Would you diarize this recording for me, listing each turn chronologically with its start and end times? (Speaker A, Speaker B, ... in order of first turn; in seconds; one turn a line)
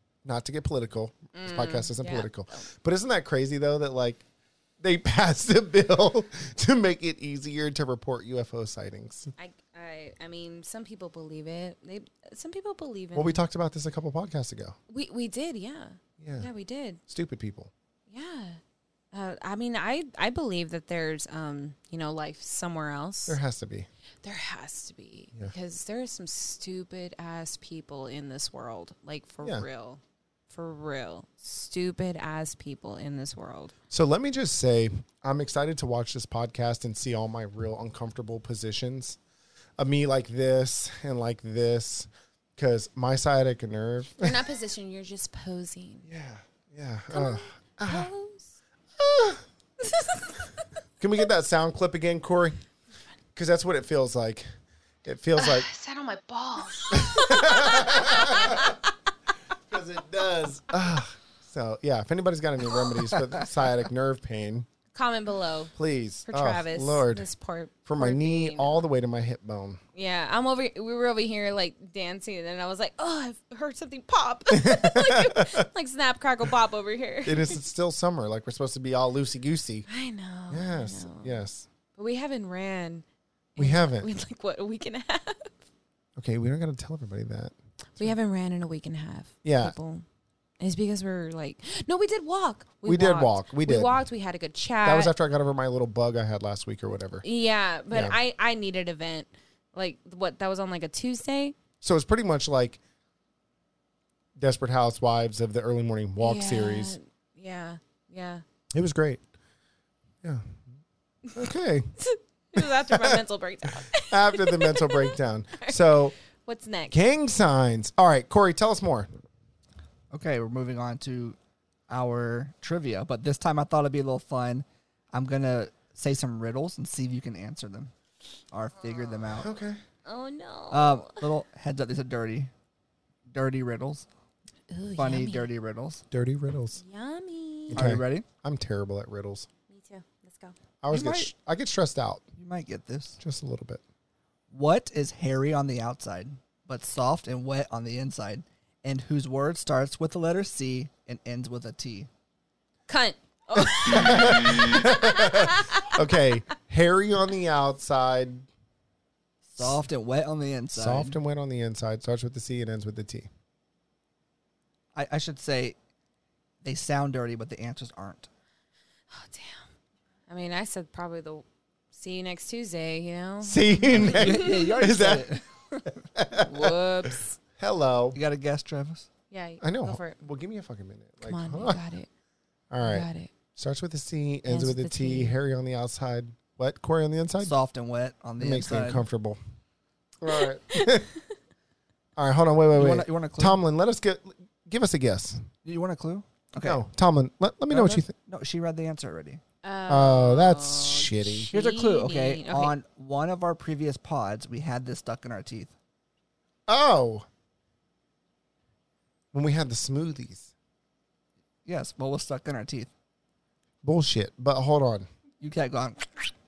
Speaker A: 0.2-4.2
Speaker B: 1.3-2.6
Speaker A: 4.8-9.3
Speaker B: 9.4-13.4
Speaker A: 13.1-14.8
Speaker B: 14.9-17.0
Speaker A: 16.2-16.5
Speaker A: 17.1-17.7
Speaker B: 18.1-18.6
Speaker B: 19.1-23.4
Speaker A: 23.3-23.9
Speaker B: 24.2-33.7
Speaker A: 33.9-39.2
Speaker A: 39.8-44.4
Speaker B: 44.2-46.0
Speaker A: 46.0-48.1
Speaker B: 47.1-48.5
Speaker A: 49.0-49.4
Speaker B: 49.8-50.3
Speaker A: 51.0-52.6
Speaker A: 53.4-54.5
Speaker A: 55.0-55.7
Speaker B: 55.4-58.8
Speaker A: 56.9-58.8
Speaker A: 59.7-64.7
Speaker B: 64.9-65.7
Speaker A: 65.7-67.3
Speaker B: 66.2-68.8
Speaker A: 67.8-69.8
Speaker B: 69.9-77.6
Speaker A: 74.5-75.7
Speaker A: 77.2-79.8
Speaker B: 79.9-81.4
Speaker A: 80.5-81.7
Speaker B: 81.9-83.0
Speaker B: 83.5-85.6
Speaker A: 83.6-84.1
Speaker A: 86.2-88.1
Speaker B: 88.0-90.0
Speaker A: 89.4-89.7
Speaker B: 90.6-95.1
Speaker A: 92.8-93.9
Speaker A: 94.8-97.2
Speaker B: 97.2-101.6
Speaker A: 101.8-102.8
Speaker A: 104.3-107.0
Speaker B: 106.2-108.4
Speaker A: 108.7-109.2
Speaker A: 110.2-110.6
Speaker A: 111.3-111.9
Speaker B: 112.0-116.9
Speaker A: 112.6-113.2
Speaker A: 113.9-116.1
Speaker A: 116.9-119.1
Speaker C: 120.1-121.3
Speaker C: 121.9-127.9
Speaker C: 128.5-129.5
Speaker A: 129.3-129.8
Speaker B: 130.1-131.2
Speaker C: 130.7-132.5
Speaker C: 133.3-134.1
Speaker B: 134.7-135.5
Speaker C: 134.9-136.0
Speaker A: 136.1-136.8
Speaker B: 136.8-137.8
Speaker C: 137.7-138.2
Speaker A: 137.7-139.5
Speaker B: 139.7-140.5
Speaker A: 140.8-142.2
Speaker C: 140.9-141.3
Speaker C: 142.4-143.2
Speaker A: 143.2-143.8
Speaker C: 144.5-152.1
Speaker B: 152.9-156.0
Speaker A: 153.5-158.5
Speaker C: 159.5-161.2
Speaker A: 160.7-163.3
Speaker C: 164.9-165.8
Speaker C: 166.6-168.3
Speaker B: 169.1-169.6
Speaker B: 170.3-174.7
Speaker A: 173.4-175.3
Speaker C: 173.9-175.9
Speaker A: 176.1-177.1
Speaker B: 176.3-177.4
Speaker A: 177.6-178.2
Speaker C: 178.1-179.1
Speaker B: 179.3-180.2
Speaker A: 179.6-181.8
Speaker B: 181.2-182.1
Speaker A: 182.7-187.5
Speaker B: 182.8-183.3
Speaker B: 184.5-185.4
Speaker C: 187.4-189.0
Speaker A: 188.4-189.4
Speaker A: 190.2-191.1
Speaker A: 192.2-195.4
Speaker C: 192.7-193.6
Speaker C: 195.6-196.8
Speaker A: 196.6-198.1
Speaker C: 197.7-199.4
Speaker B: 199.6-202.7
Speaker A: 199.9-201.5
Speaker C: 201.5-205.7
Speaker A: 206.7-207.2
Speaker A: 209.3-210.5
Speaker C: 211.7-212.9
Speaker A: 213.8-215.1
Speaker C: 215.4-216.3